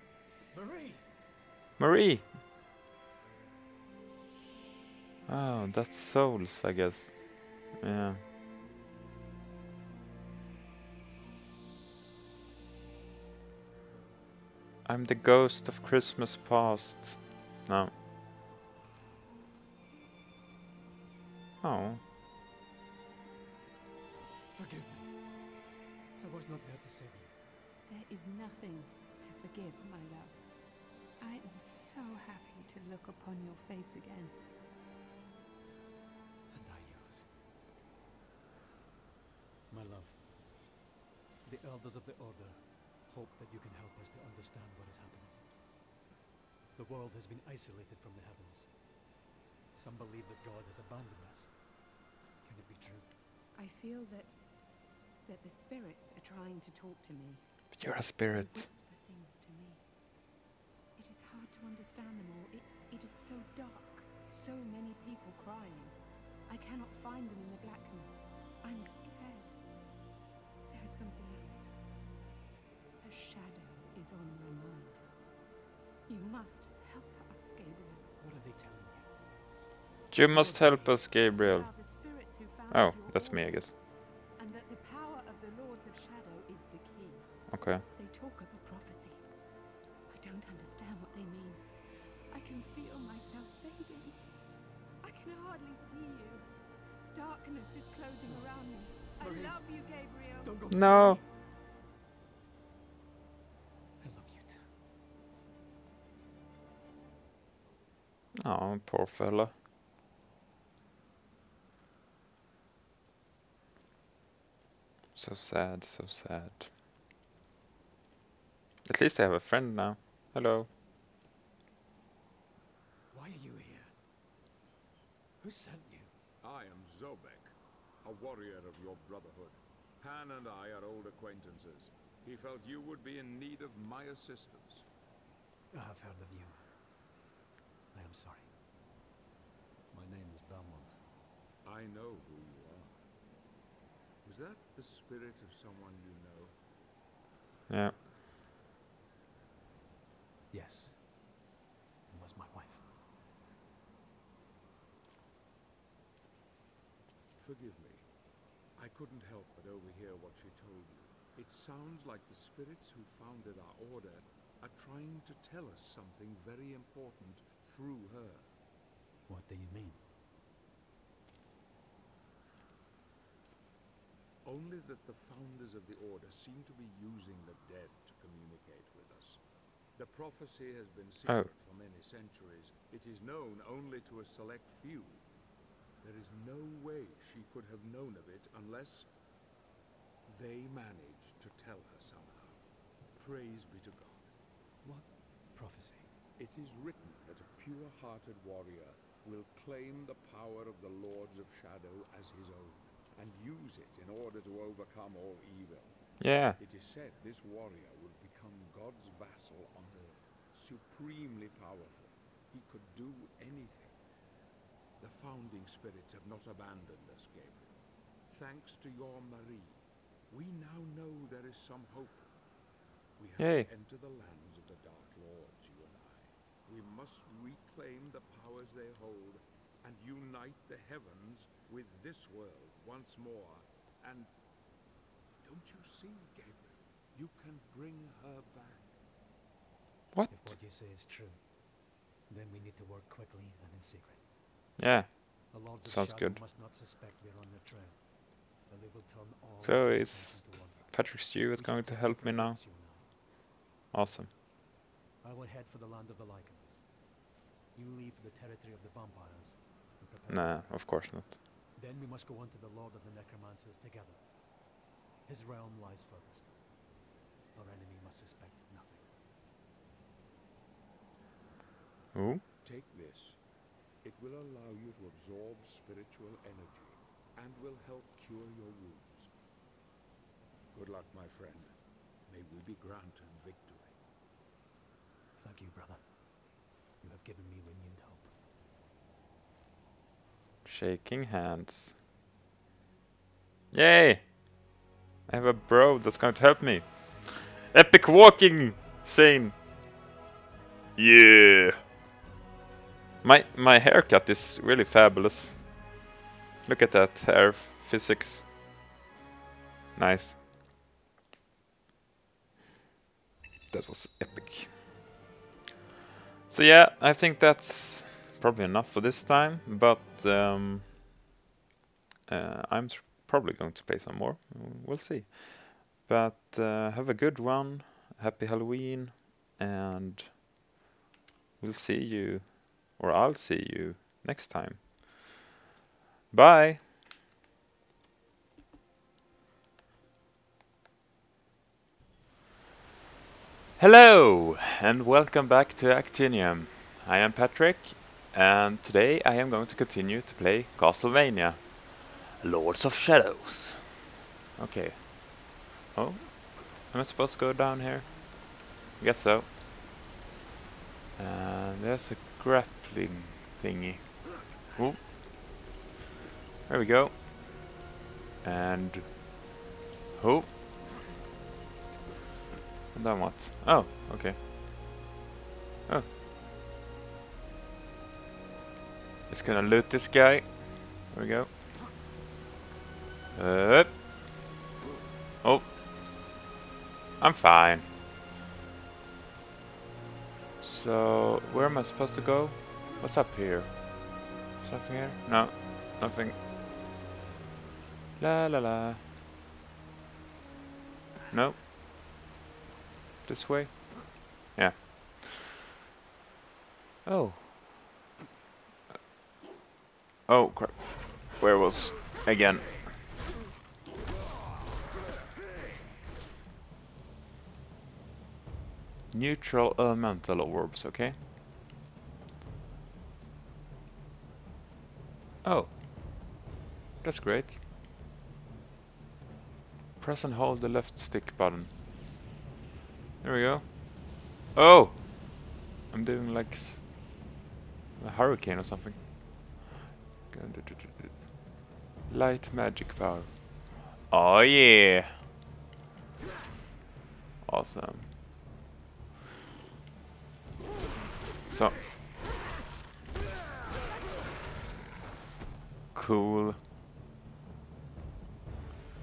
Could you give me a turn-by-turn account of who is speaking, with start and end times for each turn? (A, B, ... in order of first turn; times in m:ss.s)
0:00.5-0:01.1 A
0:01.8-0:02.4 B
0:05.3-0:08.2 B
0:14.8-0:17.9 B
0:21.6-0:22.0 B
0:24.5-0:25.5 A
0:26.2-0:27.4 A
0:27.9-0:30.4 C
0:31.2-0:34.3 C
0:36.5-0:37.3 A
0:39.7-0:40.2 A
0:41.4-0:45.4 A
0:46.7-0:48.9 A
0:49.7-0:51.8 A
0:52.4-0:53.1 A
0:53.5-0:54.4 C
0:55.2-0:59.8 C
0:57.7-0:58.7 B
1:01.0-1:09.5 C
1:10.7-1:11.7 C
1:13.0-1:15.0 C
1:16.0-1:18.1 C
1:18.2-1:19.1 A
1:20.1-1:22.0 B
1:20.2-1:21.1 A
1:21.2-1:29.3 C
1:22.7-1:23.7 B
1:27.5-1:27.8 B
1:30.1-1:34.3 C
1:35.0-1:36.5 C
1:37.1-1:40.6 C
1:38.2-1:39.6 A
1:40.4-1:41.3 A
1:40.7-1:41.2 B
1:44.0-1:44.7 A
1:48.3-1:49.5 B
1:55.1-1:56.7 B
1:58.8-2:00.7 B
2:03.1-2:04.0 A
2:05.4-2:06.1 A
2:06.4-2:14.8 D
2:15.7-2:16.7 A
2:17.9-2:18.5 A
2:19.9-2:21.0 A
2:21.6-2:23.0 D
2:24.2-2:26.6 D
2:27.7-2:28.0 B
2:30.5-2:31.1 A
2:32.1-2:32.9 A
2:37.4-2:38.1 D
2:38.8-2:48.5 D
2:49.3-2:50.0 A
2:54.4-2:59.4 D
3:00.0-3:05.2 D
3:06.0-3:09.1 D
3:10.3-3:12.6 D
3:13.1-3:14.3 D
3:14.8-3:16.1 A
3:16.4-3:34.0 D
3:26.2-3:26.6 B
3:35.0-3:42.3 D
3:43.2-3:54.3 D
3:43.4-3:43.7 B
3:55.4-3:58.9 D
4:00.1-4:00.6 B
4:00.3-4:04.3 A
4:04.8-4:06.4 B
4:05.5-4:13.1 A
4:09.6-4:12.6 B
4:13.9-4:14.3 B
4:15.2-4:17.1 A
4:17.7-4:21.0 A
4:20.3-4:21.4 B
4:21.8-4:24.4 A
4:25.2-4:26.7 A
4:27.5-4:29.1 A
4:32.1-4:32.4 B
4:32.6-4:33.4 D
4:34.0-4:39.3 D
4:40.7-4:41.7 D
4:42.3-4:44.0 D
4:45.3-4:48.3 A
4:50.6-4:52.0 B
4:53.7-4:54.7 B
4:55.3-4:59.6 B
5:01.0-5:01.8 B
5:03.2-5:06.0 B
5:06.6-5:08.5 B
5:10.0-5:10.4 B
5:13.7-5:14.8 B
5:16.5-5:21.0 B
5:22.3-5:30.4 B
5:31.6-5:35.4 B
5:36.3-5:36.8 B
5:43.8-5:54.0 B
5:54.6-5:58.3 B
5:59.0-5:59.6 B
6:01.2-6:05.1 B
6:06.7-6:07.5 B
6:08.4-6:09.5 B
6:10.1-6:10.6 B
6:12.9-6:14.5 B
6:19.3-6:21.7 B
6:23.3-6:24.1 B
6:25.4-6:25.7 B
6:27.2-6:27.9 B
6:30.6-6:36.4 B
6:38.2-6:39.0 B
6:41.3-6:41.6 B
6:43.2-6:45.3 B
6:47.0-6:47.9 B
6:50.3-6:52.9 B
6:59.1-7:01.2 B
7:05.4-7:06.3 B
7:07.0-7:07.6 B
7:10.0-7:11.8 B
7:13.2-7:17.3 B
7:18.0-7:19.6 B
7:20.3-7:21.5 B
7:22.1-7:25.2 B
7:27.4-7:28.2 B
7:31.5-7:31.8 B
7:35.9-7:36.6 B